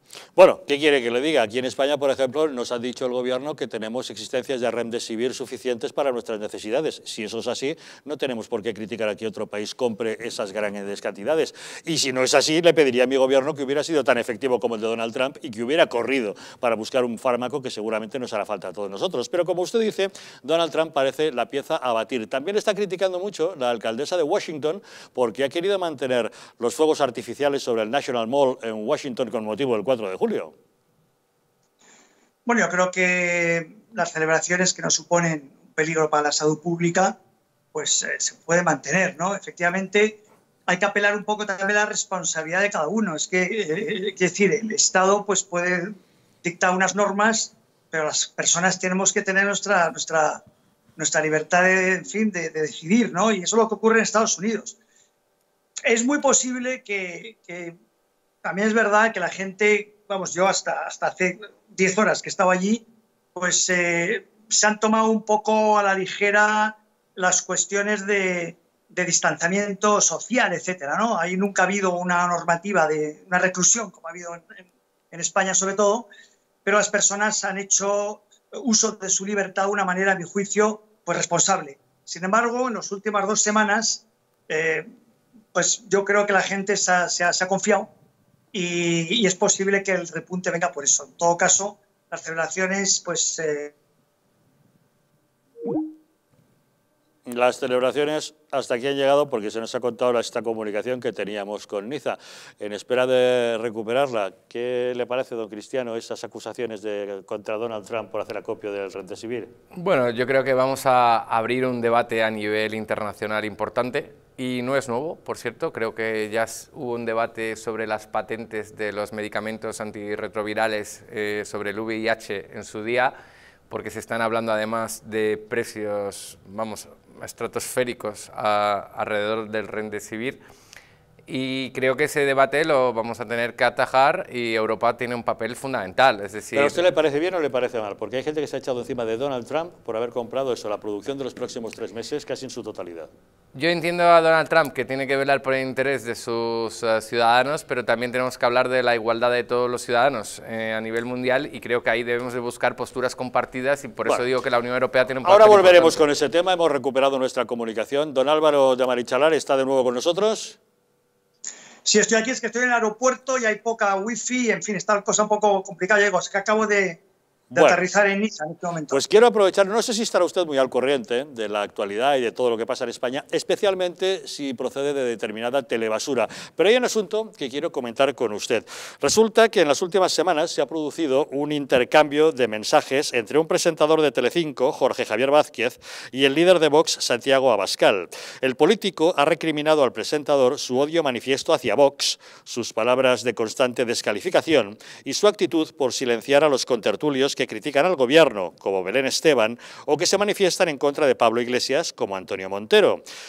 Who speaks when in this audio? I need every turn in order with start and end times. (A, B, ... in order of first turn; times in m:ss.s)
0:00.4-0:30.5 A
0:32.5-0:37.2 B
0:37.7-0:50.4 B
0:51.0-0:54.8 B
0:55.9-0:57.8 B
0:58.4-1:02.8 B
1:03.4-1:16.1 B
1:16.6-1:24.9 B
1:25.5-1:27.9 B
1:28.5-1:33.7 B
1:37.3-1:49.5 A
1:49.7-2:03.1 C
2:03.7-2:10.4 C
2:11.3-2:16.8 C
2:16.5-2:23.1 A
2:23.5-2:36.1 C
2:35.2-2:40.6 A
2:41.8-2:47.0 B
2:47.5-2:47.8 A
2:47.6-2:49.0 B
2:48.9-3:23.0 A